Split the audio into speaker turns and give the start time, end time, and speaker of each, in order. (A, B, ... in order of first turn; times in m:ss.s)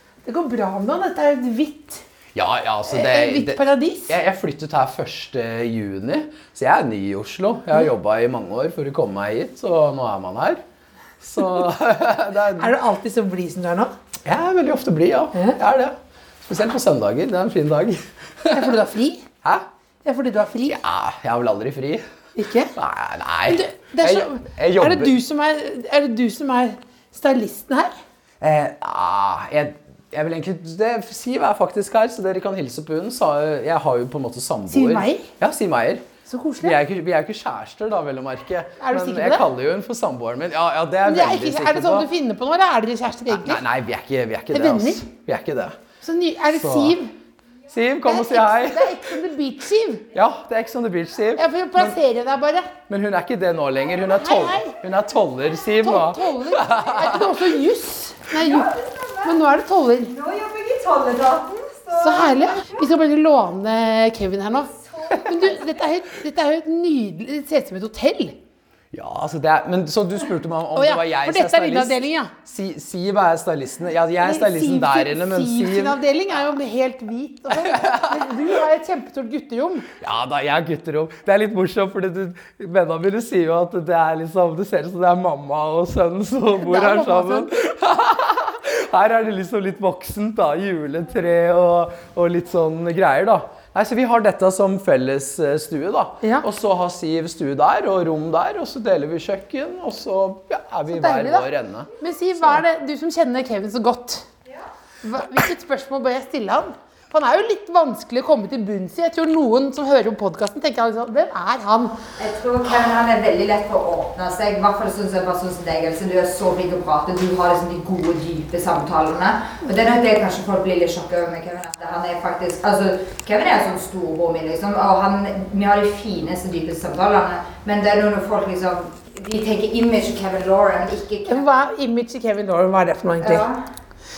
0:00.2-0:02.0 A
0:02.3-0:10.6 B
0:02.9-0:04.1 A
0:11.2-0:12.8 B
0:12.6-0:13.9 A
0:14.2-0:18.8 B
0:18.5-0:19.2 A
0:20.0-0:20.8 A
0:20.6-0:22.0 B
0:22.4-0:22.7 A
0:22.7-0:25.2 B
0:23.5-0:27.9 A
0:28.4-0:36.1 B
0:34.7-0:35.3 A
0:36.3-0:36.8 A
0:36.6-0:42.1 B
0:38.8-0:39.5 A
0:41.0-0:43.6 A
0:43.3-0:45.8 B
0:44.5-0:45.0 A
0:46.0-0:47.1 A
0:46.5-0:47.0 B
0:47.7-0:49.1 B
0:48.0-0:50.0 A
0:50.1-0:52.0 B
0:51.4-0:52.7 A
0:52.9-0:57.4 B
0:54.2-0:54.8 A
0:55.8-1:00.2 A
1:00.4-1:01.8 C
1:01.9-1:08.4 A
1:08.9-1:16.0 B
1:10.8-1:12.3 A
1:14.2-1:19.9 A
1:17.5-1:18.3 B
1:20.0-1:42.6 B
1:26.5-1:27.5 A
1:40.9-1:44.3 A
1:45.0-1:52.0 A
1:52.2-2:11.7 C
2:11.3-2:13.4 A
2:13.2-2:13.6 C